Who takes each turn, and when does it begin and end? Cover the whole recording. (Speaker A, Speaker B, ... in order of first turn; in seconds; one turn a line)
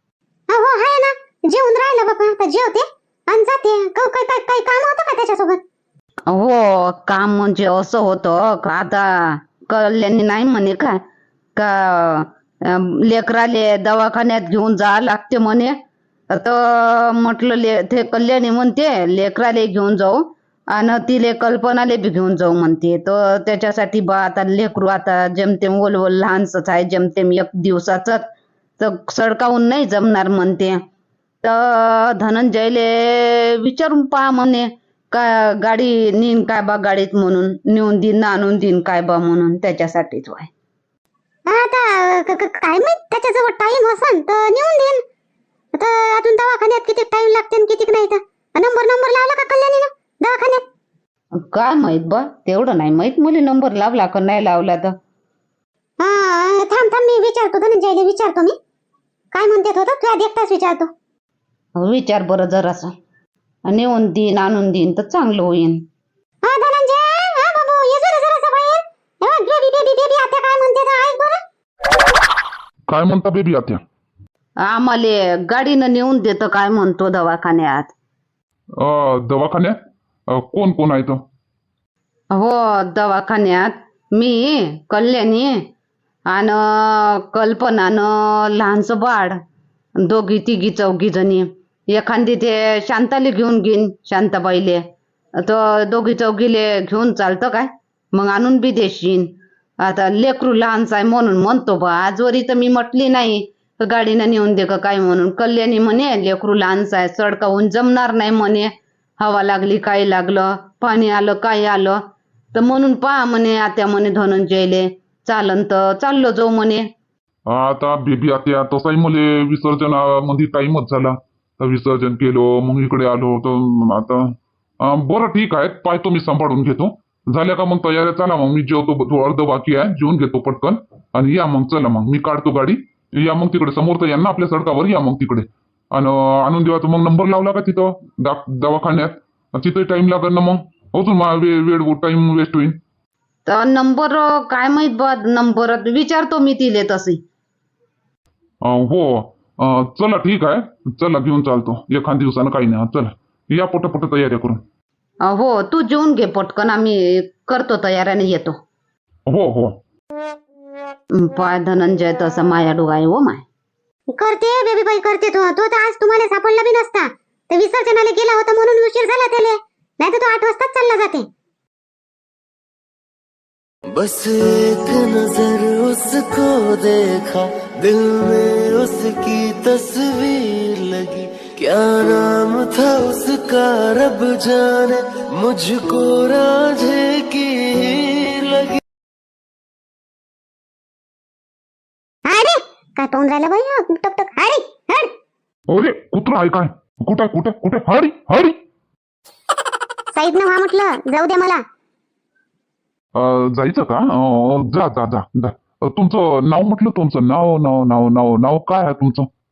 Speaker A: 0.5-5.6
Speaker B: 6.3-10.9
Speaker B: 11.6-15.7
Speaker B: 16.3-28.3
Speaker B: 28.8-30.7
Speaker B: 31.4-40.5
Speaker A: 41.5-45.0
Speaker A: 45.7-50.6
Speaker B: 51.4-54.9
Speaker A: 56.0-58.5
Speaker A: 59.3-60.9
Speaker B: 61.8-62.9
Speaker B: 63.7-65.8
Speaker A: 66.4-71.4
Speaker C: 72.9-73.8
Speaker B: 74.6-77.9
Speaker C: 78.8-79.7
Speaker C: 80.3-81.2
Speaker B: 82.3-85.5
Speaker B: 86.3-89.3
Speaker B: 90.0-94.8
Speaker B: 95.4-99.3
Speaker B: 99.8-108.7
Speaker B: 109.2-112.0
Speaker B: 112.5-116.8
Speaker C: 117.5-124.2
Speaker C: 124.8-142.8
Speaker B: 143.4-147.2
Speaker C: 148.6-154.6
Speaker B: 155.2-158.6
Speaker C: 159.3-159.8
Speaker B: 161.1-163.4
Speaker A: 164.1-171.3
Speaker D: 173.9-188.8
Speaker A: 192.2-195.1
Speaker C: 195.7-198.6
Speaker A: 200.1-201.6
Speaker C: 203.1-209.3